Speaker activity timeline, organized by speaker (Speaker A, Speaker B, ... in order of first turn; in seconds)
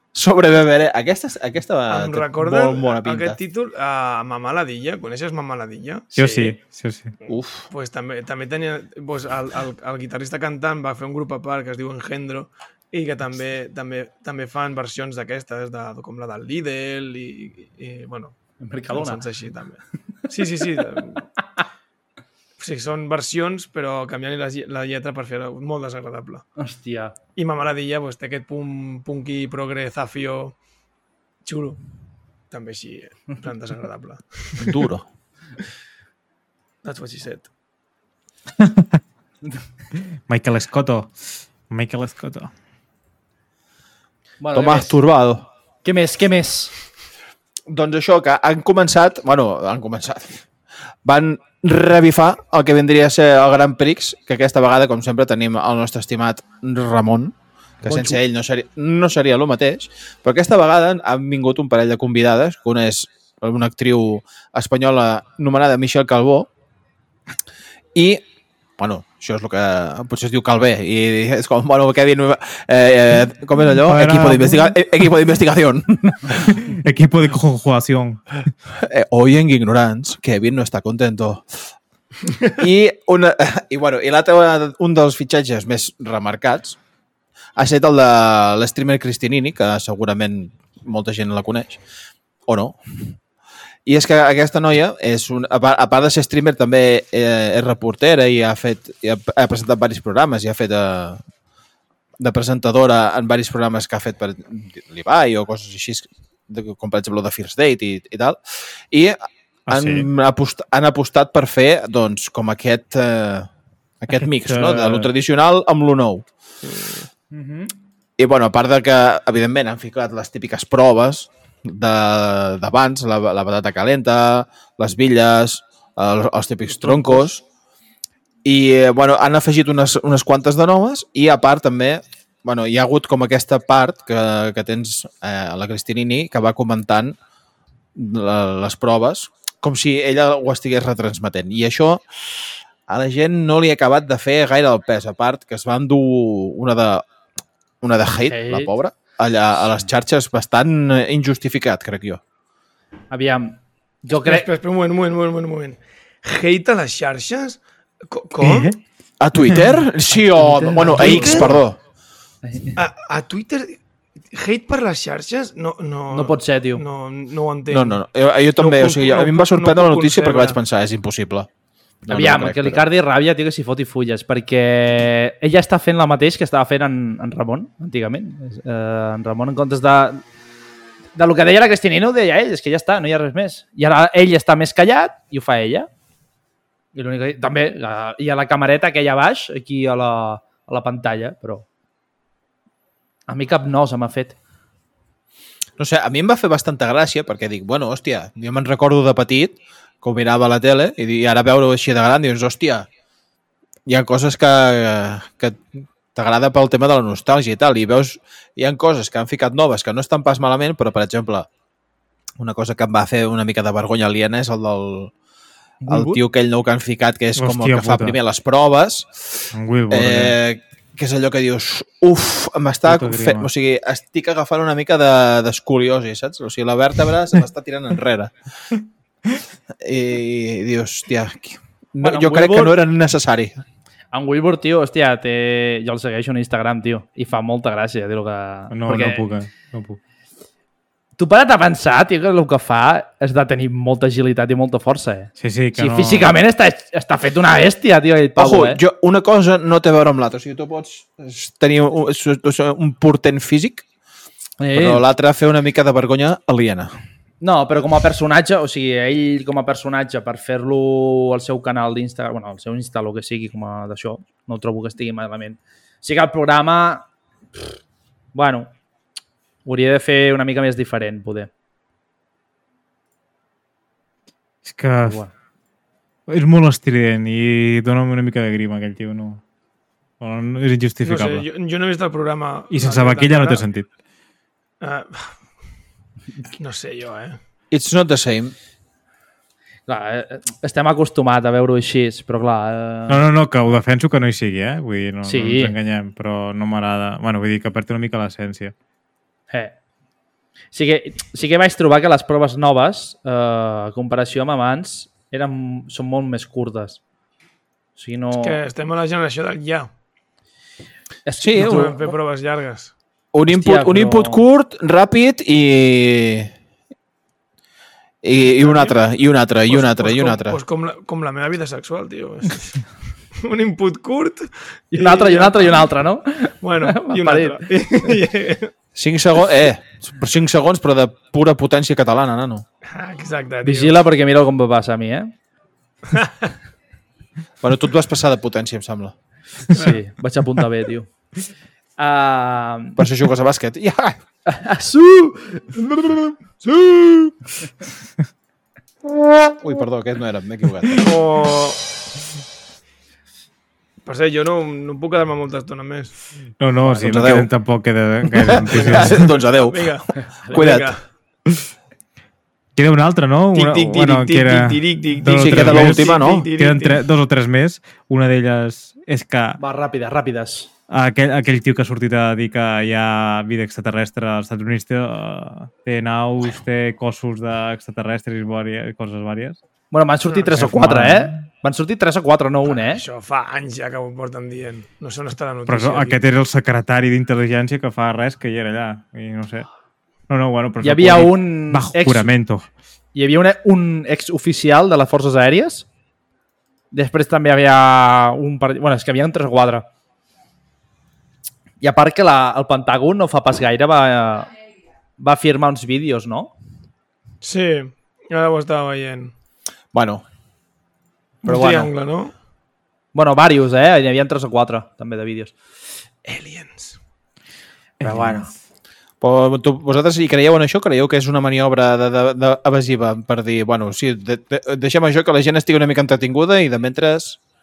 Speaker A: 0.1-3.4, 7.3-7.7, 34.6-35.0, 44.5-45.5, 47.7-50.4, 51.0-66.5, 67.9-68.2, 68.8-76.5, 78.7-81.6, 82.5-86.8, 87.5-91.8, 92.5-93.1, 93.8-101.2, 102.2-108.4, 108.9-113.5, 114.0-116.3, 118.2-127.4, 128.4-137.2, 137.9-147.1, 147.8-152.2, 159.2-161.8, 167.7-171.5, 172.0-172.8, 195.8-202.9, 203.9-205.6, 206.1-211.5, 212.4-215.1, 215.9-228.3, 229.8-233.6, 248.3-253.8, 254.7-256.9, 287.7-288.5, 311.4-311.9, 313.3-316.5, 318.2-320.6, 328.9-332.6, 337.6-339.1, 343.0-344.2, 349.6-351.1, 356.9-357.5, 358.3-360.0, 360.5-360.9, 365.2-366.5, 409.9-410.2, 419.2-427.4
Speaker B: 1.9-6.5, 7.7-18.4, 18.9-21.2, 22.6-26.4, 27.4-30.6, 31.4-31.8, 32.5-34.8, 36.8-37.5, 154.2-158.7, 160.8-161.6, 162.8-163.8, 164.3-168.0, 168.6-170.6, 281.0-283.6, 284.8-285.4, 286.6-287.4, 308.4-309.9, 311.5-312.9, 318.6-319.0, 319.6-322.8, 323.4-325.9, 326.6-328.7, 332.9-334.0, 350.9-351.8, 354.0-356.1, 358.7-361.0, 363.5-367.0, 380.3-380.5, 382.6-386.2, 407.4-409.3, 411.4-412.3, 416.2-417.0
Speaker C: 6.1-7.1, 38.6-38.9, 40.3-41.1, 41.7-42.5, 73.8-74.7, 76.3-78.2, 109.7-110.1, 114.4-115.1, 116.6-117.0, 158.4-158.8, 217.4-218.2, 219.5-220.3, 222.8-223.5, 238.7-240.0, 245.4-246.3, 274.6-275.2, 276.3-279.4, 280.2-281.4, 282.7-283.9, 293.1-298.7, 356.6-359.3, 362.8-369.6, 370.9-379.6, 380.6-381.4, 385.7-389.7, 390.3-392.7, 418.0-418.4
Speaker D: 18.6-19.2, 26.6-27.1, 44.4-45.0, 45.8-46.7, 57.8-58.2, 117.3-117.7, 148.2-148.7, 153.1-154.5, 160.1-161.6, 162.4-162.8, 166.1-166.8, 172.1-180.2, 181.1-185.9, 186.9-191.7, 193.3-194.4, 215.8-216.2, 232.0-232.8, 234.1-239.3, 241.2-248.8, 254.6-255.0, 257.4-267.1, 268.3-268.7, 269.6-271.5, 275.0-275.3, 289.9-293.3, 295.2-295.7, 299.5-299.7, 300.7-307.0, 307.9-308.6, 311.2-312.1, 313.5-314.4, 324.9-328.1, 333.6-335.3, 339.7-341.1, 342.0-343.0, 344.4-346.3, 369.6-370.7, 379.9-383.0, 390.8-392.3, 393.1-395.9, 396.9-399.9, 401.8-404.5, 405.2-406.5, 411.4-411.9, 413.1-415.5, 418.0-418.5